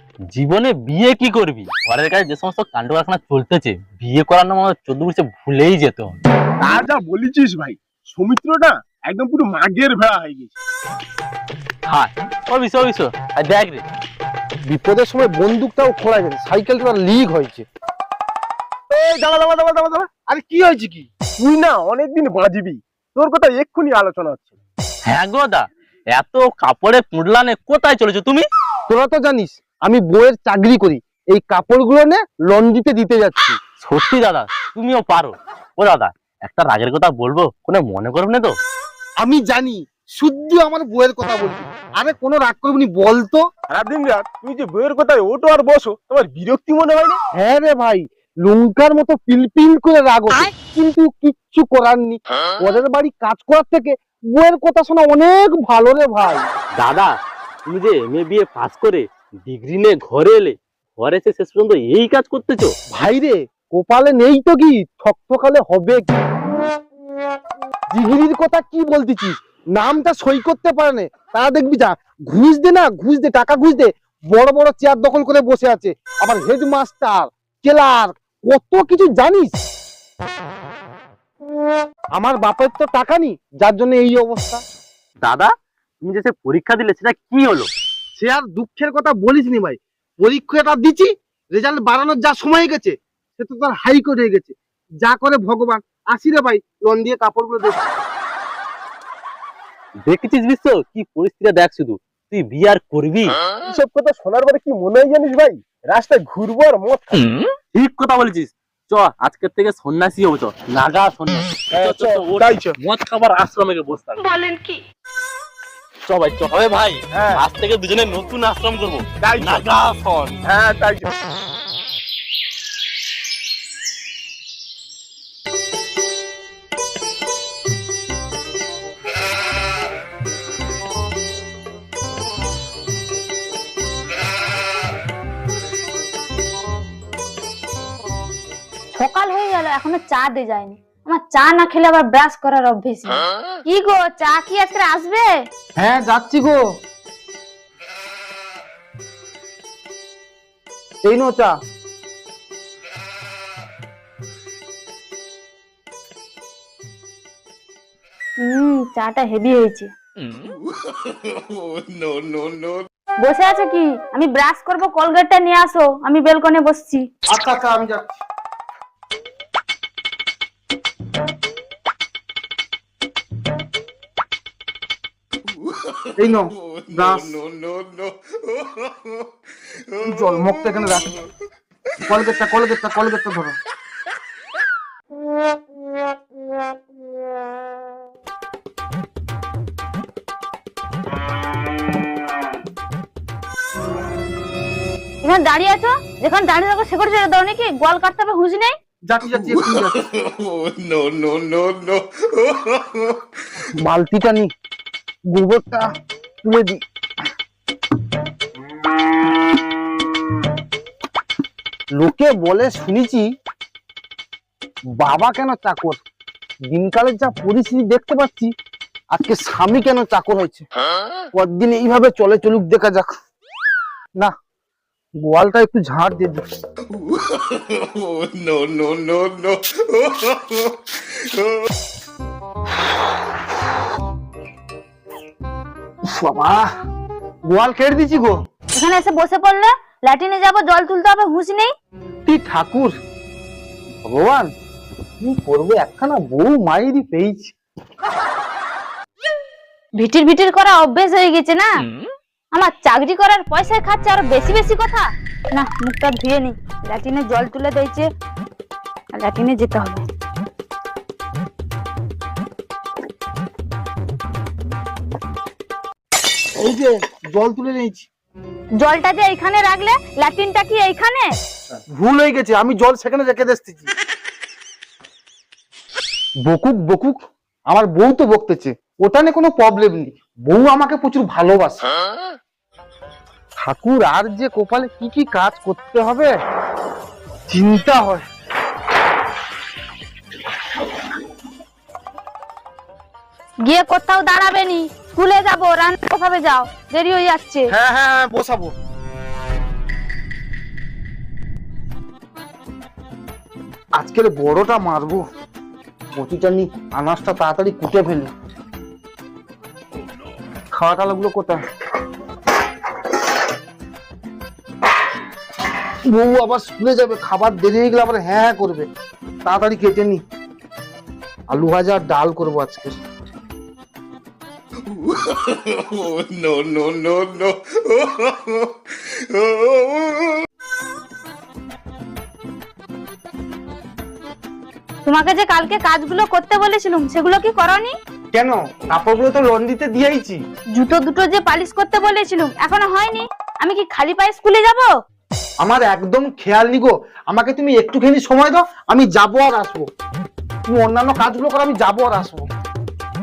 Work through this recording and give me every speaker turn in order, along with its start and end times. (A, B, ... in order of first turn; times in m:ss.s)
0:00.3-0:06.2 A
0:06.6-0:10.6 B
0:11.9-0:13.8 A
0:14.7-0:17.7 C
0:18.9-0:20.1 B
0:20.2-0:21.1 C
0:21.4-0:24.6 B
0:25.1-0:28.5 A
0:28.9-0:33.6 C
0:33.8-0:38.6 A
0:39.2-0:43.5 C
0:43.7-0:47.2 B
0:47.4-0:56.5 C
0:56.8-0:57.2 A
0:57.7-1:02.8 A
1:02.9-1:06.1 C
1:07.9-1:19.6 C
1:22.2-1:24.6 C
1:26.2-1:27.6 A
1:28.2-1:37.9 C
1:40.0-1:43.4 A
1:43.6-1:47.2 B
1:47.1-1:54.2 A
1:51.7-1:52.8 B
1:54.2-1:54.8 D
1:56.1-2:00.4 A
1:57.1-1:57.5 B
1:59.2-1:59.7 B
2:00.4-2:01.1 B
2:19.0-2:25.5 D
2:25.8-2:26.6 C
2:31.0-2:31.5 C
2:38.4-2:39.9 D
2:40.6-2:42.9 E
2:43.2-2:47.1 D
2:47.3-2:48.2 C
2:55.5-2:59.3 E
2:56.2-2:57.3 C
2:59.9-3:00.5 E
3:00.0-3:01.1 C
3:02.1-3:03.6 C
3:15.2-3:18.7 D
3:19.0-3:20.0 C
3:19.8-3:23.2 E
3:23.7-3:24.5 C
3:25.3-3:25.9 C
3:26.4-3:26.8 C
3:32.0-3:33.3 C
3:35.0-3:36.0 C
3:36.7-3:38.5 C
3:39.1-3:40.7 C
3:41.3-3:43.1 C
3:45.2-3:46.4 C
3:46.9-3:51.6 E
3:56.1-3:56.7 C
3:57.5-3:58.4 C
3:58.8-4:01.7 D
4:02.3-4:02.9 C
4:04.0-4:04.5 C
4:05.2-4:07.5 C
4:10.0-4:11.8 D
4:12.5-4:18.1 D
4:19.1-4:20.0 D
4:26.6-4:28.1 C
4:28.8-4:31.3 D
4:32.0-4:33.9 C
4:36.4-4:41.9 C
4:43.6-4:46.3 C
4:47.5-4:48.2 C
4:53.6-4:57.7 D
4:57.7-4:58.7 C
5:04.0-5:05.2 C
5:06.1-5:08.3 C
5:10.7-5:11.6 C
5:16.1-5:18.9 C
5:19.4-5:20.2 C
5:21.5-5:23.0 C
5:24.8-5:30.4 E
5:35.0-5:38.0 D
5:38.3-5:40.4 C
5:40.8-5:44.9 D
5:45.6-5:49.9 C
5:50.7-5:52.5 C